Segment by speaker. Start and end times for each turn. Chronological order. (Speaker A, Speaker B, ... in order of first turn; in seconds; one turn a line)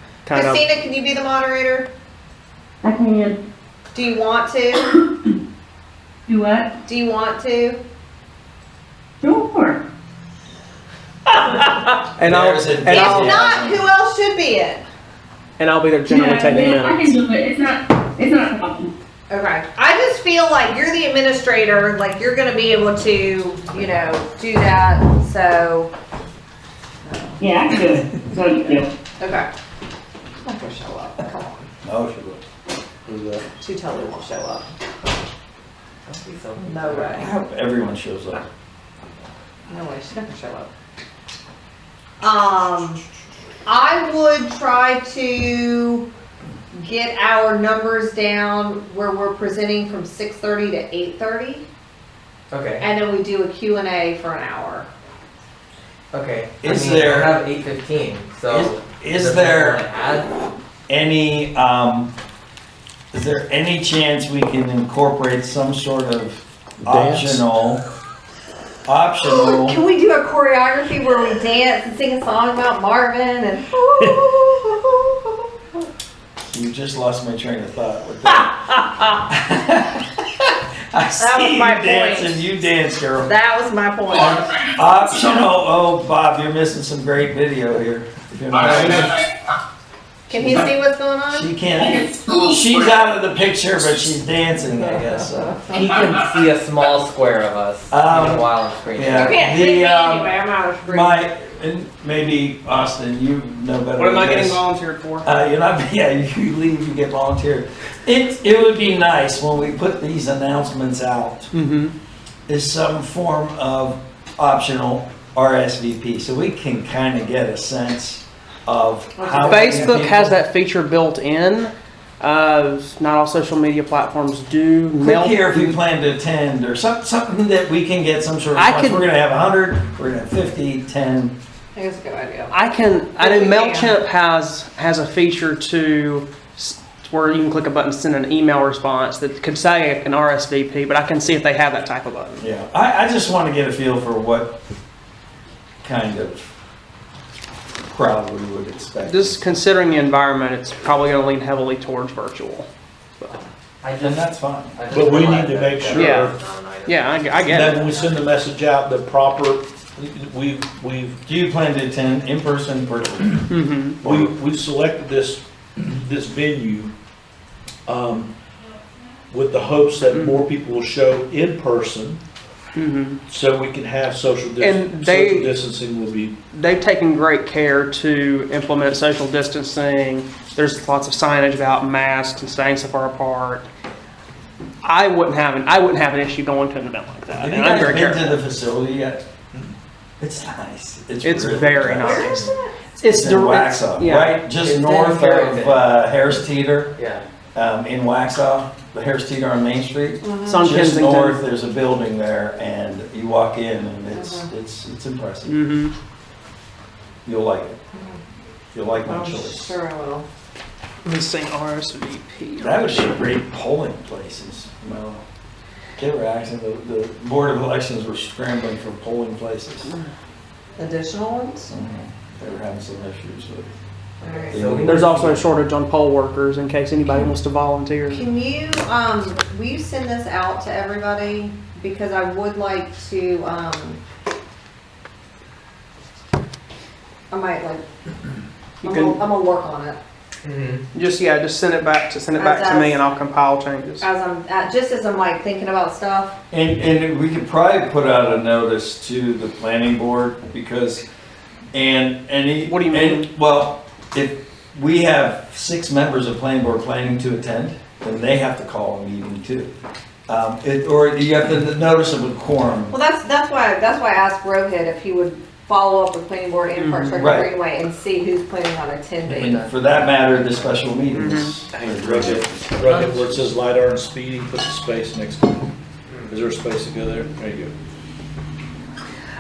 Speaker A: 0.3-0.6
Speaker B: 0.3-1.9
Speaker C: 2.8-3.4
Speaker B: 3.9-4.9
Speaker C: 6.3-6.7
Speaker B: 6.8-7.8
Speaker C: 9.2-9.8
Speaker A: 11.5-13.6
Speaker D: 12.2-13.8
Speaker B: 12.9-14.9
Speaker A: 15.6-17.2
Speaker C: 16.1-18.9
Speaker B: 19.3-25.9
Speaker B: 27.1-27.4
Speaker C: 27.4-28.9
Speaker B: 28.6-29.5
Speaker B: 30.4-31.7
Speaker D: 31.9-32.4
Speaker E: 33.1-33.4
Speaker B: 33.6-34.7
Speaker F: 36.1-37.2
Speaker B: 36.6-37.3
Speaker D: 37.1-38.5
Speaker B: 39.7-40.7
Speaker B: 42.2-43.0
Speaker B: 43.7-46.1
Speaker B: 46.7-51.7
Speaker F: 52.5-52.9
Speaker B: 52.8-54.9
Speaker F: 56.1-60.5
Speaker D: 56.6-57.4
Speaker D: 58.5-59.9
Speaker D: 60.9-62.1
Speaker D: 63.1-67.8
Speaker E: 66.8-67.4
Speaker D: 68.9-69.8
Speaker B: 69.2-75.4
Speaker D: 76.5-78.7
Speaker B: 78.3-79.1
Speaker D: 79.3-83.3
Speaker B: 81.2-82.4
Speaker B: 83.2-84.6
Speaker D: 84.6-89.2
Speaker B: 90.3-91.5
Speaker D: 90.3-90.6
Speaker D: 91.3-95.6
Speaker B: 95.4-95.9
Speaker F: 95.7-99.4
Speaker D: 97.9-100.3
Speaker B: 99.1-101.2
Speaker D: 100.9-104.6
Speaker A: 104.0-105.3
Speaker D: 105.2-111.5
Speaker A: 111.5-111.9
Speaker D: 112.5-120.4
Speaker F: 119.4-119.8
Speaker A: 119.4-125.8
Speaker D: 125.0-131.4
Speaker A: 128.6-129.1
Speaker B: 131.8-132.5
Speaker A: 132.5-142.4
Speaker B: 133.2-134.0
Speaker D: 142.4-144.6
Speaker D: 145.8-146.5
Speaker D: 147.9-149.6
Speaker A: 149.0-152.7
Speaker F: 153.8-158.2
Speaker D: 154.0-154.8
Speaker E: 154.9-156.4
Speaker A: 155.9-156.3
Speaker A: 156.8-157.9
Speaker E: 157.4-161.2
Speaker D: 161.3-163.5
Speaker A: 163.5-164.0
Speaker D: 164.0-164.3
Speaker E: 164.0-166.9
Speaker E: 167.9-168.3
Speaker E: 169.3-172.2
Speaker A: 170.1-170.4
Speaker A: 172.8-173.2
Speaker E: 173.3-176.4
Speaker A: 174.6-175.5
Speaker A: 176.5-183.7
Speaker A: 184.8-188.4
Speaker D: 187.3-189.2
Speaker D: 190.2-192.4
Speaker A: 191.2-194.4
Speaker B: 192.0-192.8
Speaker D: 193.0-197.0
Speaker F: 194.6-196.0
Speaker F: 196.9-197.3
Speaker D: 197.6-205.6
Speaker B: 200.2-200.7
Speaker A: 200.4-201.4
Speaker B: 204.1-204.5
Speaker A: 205.5-205.9
Speaker D: 207.2-207.8
Speaker D: 208.7-209.8
Speaker B: 209.1-210.3
Speaker A: 211.0-213.1
Speaker D: 212.6-215.2
Speaker D: 216.0-219.9
Speaker B: 220.8-221.7
Speaker D: 221.7-223.7
Speaker B: 224.2-224.6
Speaker F: 224.5-225.4
Speaker D: 224.5-225.2
Speaker A: 224.8-228.3
Speaker B: 228.1-234.0
Speaker B: 237.3-237.8
Speaker A: 238.8-239.2
Speaker B: 238.8-240.0
Speaker F: 240.4-240.8
Speaker A: 240.9-244.1
Speaker B: 242.4-243.0
Speaker B: 244.0-246.4
Speaker D: 246.5-251.1
Speaker D: 251.7-259.7
Speaker A: 252.7-253.3
Speaker D: 260.3-262.9
Speaker B: 262.9-269.7
Speaker A: 266.8-267.4
Speaker D: 267.2-267.5
Speaker F: 269.3-269.7
Speaker D: 269.3-272.4
Speaker A: 271.1-271.6
Speaker E: 271.8-275.7
Speaker F: 271.8-273.2
Speaker E: 276.3-277.7